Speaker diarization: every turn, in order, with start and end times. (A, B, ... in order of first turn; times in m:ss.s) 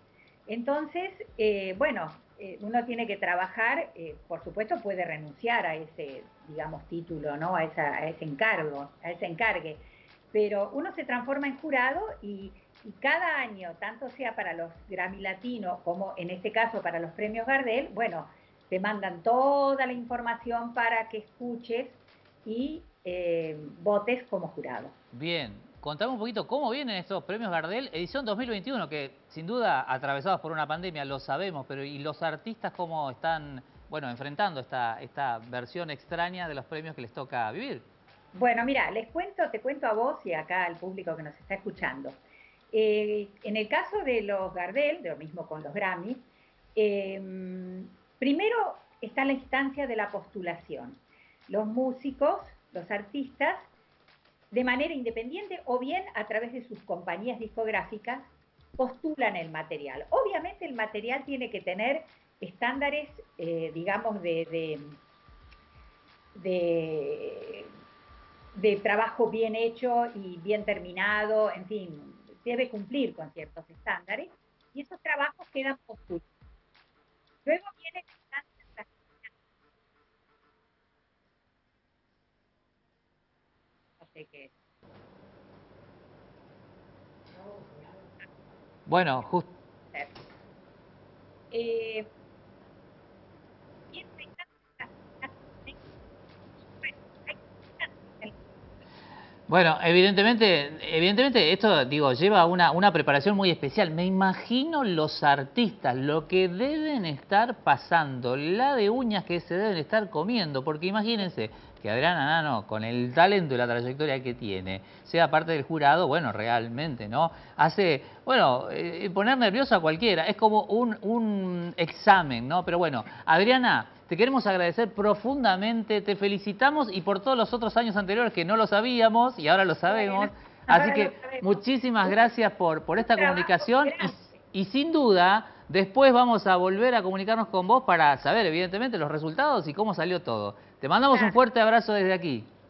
0:00.5-0:24.9 A
0:25.1-0:37.9 B
0:38.3-0:42.2 A
0:42.7-0:53.7 A
0:54.5-1:05.0 A
1:06.4-1:07.7 A
1:08.5-1:16.3 A
1:17.4-1:18.9 A
1:24.0-1:24.5 A
1:28.9-1:29.5 B
1:31.5-1:32.1 A
1:33.9-1:35.8 A
1:36.7-1:38.4 A
1:39.5-2:22.5 B
2:09.9-2:12.3 A
2:13.0-2:14.3 A
2:21.1-2:21.4 A